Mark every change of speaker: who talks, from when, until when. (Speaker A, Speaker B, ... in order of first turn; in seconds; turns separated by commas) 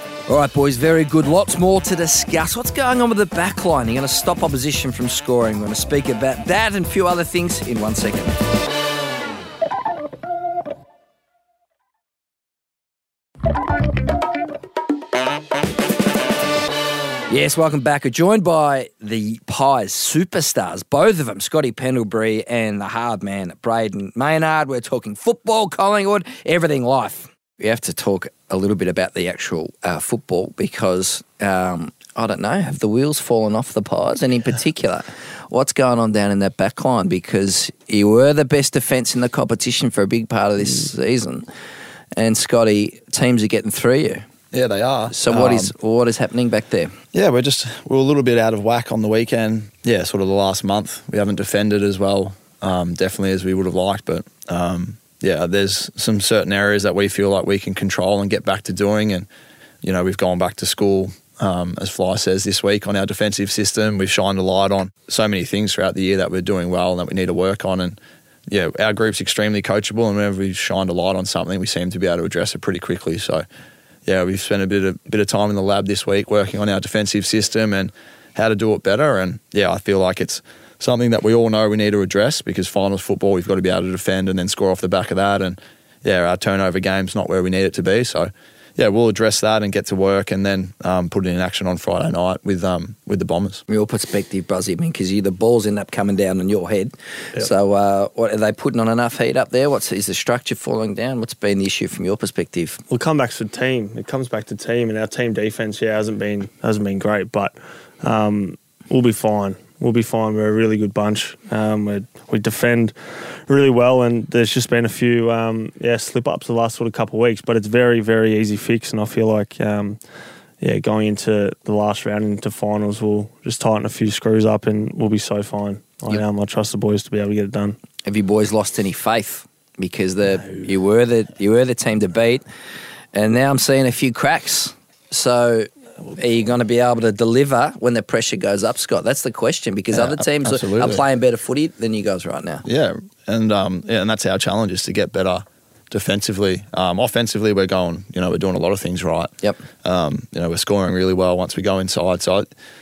Speaker A: 0.3-8.3, Speaker A: 17.3-41.5, Speaker A: 42.1-44.2, Speaker B: 44.5-45.7, Speaker A: 45.1-46.9, Speaker B: 47.1-59.3, Speaker B: 59.8-68.0, Speaker B: 68.5-73.4, Speaker B: 74.0-93.6, Speaker A: 93.7-102.8, Speaker C: 102.9-120.0, Speaker C: 120.6-127.8, Speaker A: 128.0-132.4, Speaker A: 133.1-142.6, Speaker B: 139.9-141.0, Speaker B: 142.6-149.3, Speaker B: 149.8-152.5